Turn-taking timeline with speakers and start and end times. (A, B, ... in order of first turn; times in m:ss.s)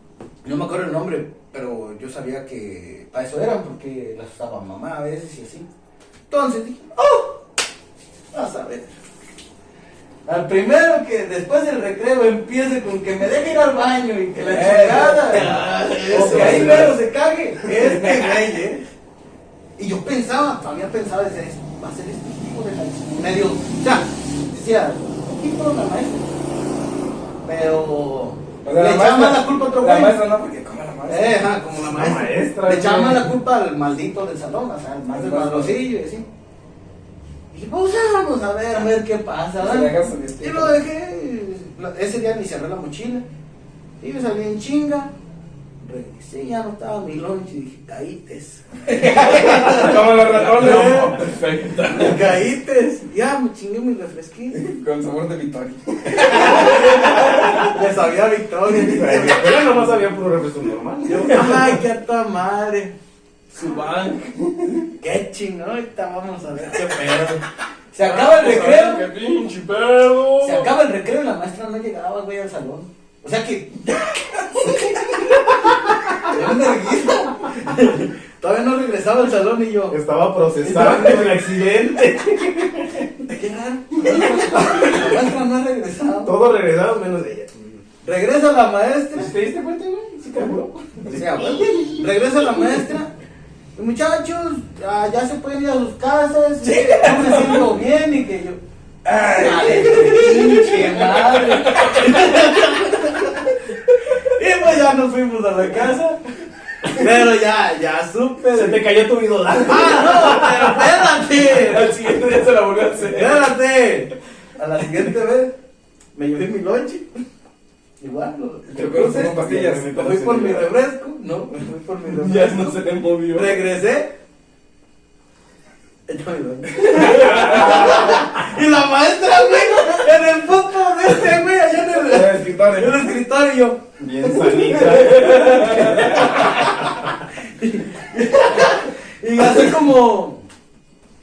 0:00.4-0:05.7 A
0:06.3-0:07.4 A
0:08.3-0:08.8 A
0:10.2-0:18.8 A
0:14.4-0:16.9 B
0:16.1-0:16.9 C
0:16.2-0:16.9 D
0:19.8-0:26.3 A
0:27.4-0:30.2 A
0:28.6-0:31.4 B
0:31.1-0:36.2 A
0:31.8-0:33.3 C
0:35.1-0:35.8 B
0:37.5-0:43.2 A
0:39.6-0:40.8 B
0:44.0-0:45.1 A
0:45.8-0:50.0 A
0:48.9-0:51.2 B
0:49.0-0:52.3 D
0:50.5-0:51.2 A
0:51.8-0:54.7 A
0:54.5-0:57.7 B
0:56.1-0:59.7 A
0:56.3-0:57.4 D
0:58.8-1:01.6 C
1:01.1-1:02.9 A
1:03.5-1:04.8 D
1:05.0-1:07.4 A
1:06.8-1:07.4 D
1:07.9-1:09.0 A
1:08.0-1:10.7 D
1:10.4-1:14.1 A
1:14.6-1:14.9 A
1:16.0-1:16.3 C
1:16.2-1:20.0 A
1:19.9-1:23.2 C
1:20.6-1:21.3 A
1:20.7-1:21.3 B
1:23.3-1:26.3 A
1:24.0-1:25.2 C
1:26.2-1:27.8 C
1:28.0-1:29.3 A
1:29.1-1:31.9 C
1:31.1-1:33.1 A
1:33.8-1:38.6 A
1:36.6-1:37.7 D
1:39.1-1:39.6 B
1:39.2-1:43.6 A
1:39.4-1:42.4 D
1:44.2-1:46.3 A
1:46.8-1:48.8 A
1:48.5-1:51.0 C
1:49.6-1:51.9 A
1:51.4-1:53.5 D
1:53.0-1:55.5 A
1:56.1-1:57.1 A
1:58.0-2:02.8 A
1:58.7-2:00.7 B
1:58.8-1:59.6 C
2:02.1-2:03.6 D
2:03.3-2:04.1 A
2:06.1-2:13.8 A
2:06.9-2:07.8 D
2:07.0-2:08.2 C
2:07.2-2:07.7 B
2:12.0-2:13.0 B
2:14.0-2:17.0 C
2:14.7-2:20.4 A
2:14.9-2:16.1 D